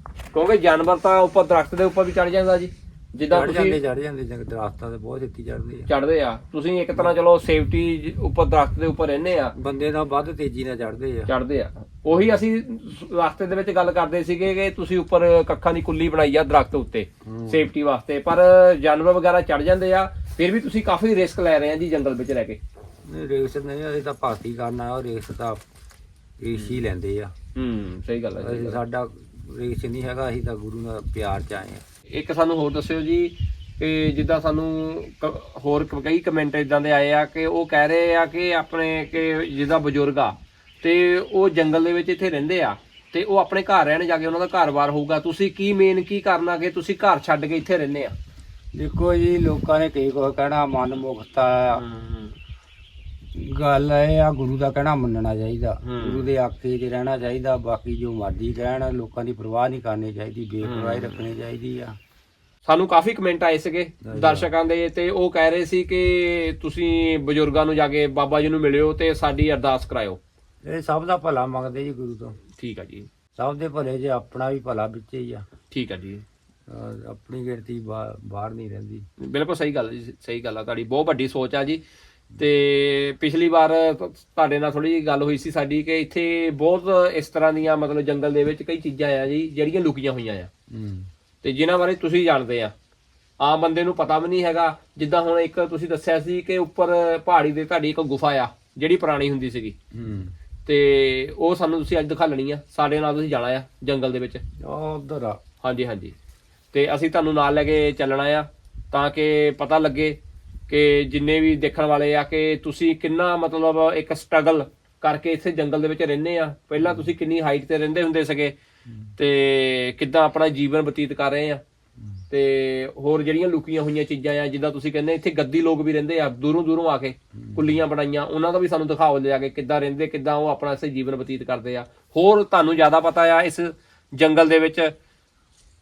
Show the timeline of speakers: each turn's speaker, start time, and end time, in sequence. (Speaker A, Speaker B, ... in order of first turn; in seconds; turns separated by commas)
Speaker A: 0.3-3.8, Speaker B: 3.3-5.9, Speaker A: 5.9-9.5, Speaker B: 9.6-11.3, Speaker A: 11.3-22.6, Speaker B: 17.2-17.7, Speaker B: 23.0-25.6, Speaker B: 26.4-27.3, Speaker A: 27.5-28.8, Speaker B: 28.4-31.8, Speaker A: 32.1-48.1, Speaker B: 48.8-51.8, Speaker A: 51.7-52.4, Speaker B: 53.3-62.0, Speaker A: 55.8-56.3, Speaker A: 60.6-61.2, Speaker A: 62.6-70.2, Speaker B: 64.0-64.5, Speaker B: 70.6-72.4, Speaker A: 72.6-73.1, Speaker B: 73.3-75.5, Speaker A: 75.7-76.2, Speaker B: 76.7-79.1, Speaker A: 79.2-81.8, Speaker A: 82.4-90.5, Speaker B: 90.7-91.1, Speaker A: 91.4-92.7, Speaker A: 93.4-99.8, Speaker B: 99.9-100.3, Speaker A: 100.7-104.4, Speaker B: 104.6-105.4, Speaker A: 105.6-106.1, Speaker A: 106.7-118.5, Speaker B: 116.8-117.1, Speaker B: 118.9-119.1, Speaker A: 119.2-121.6, Speaker A: 122.3-134.9, Speaker B: 127.3-127.8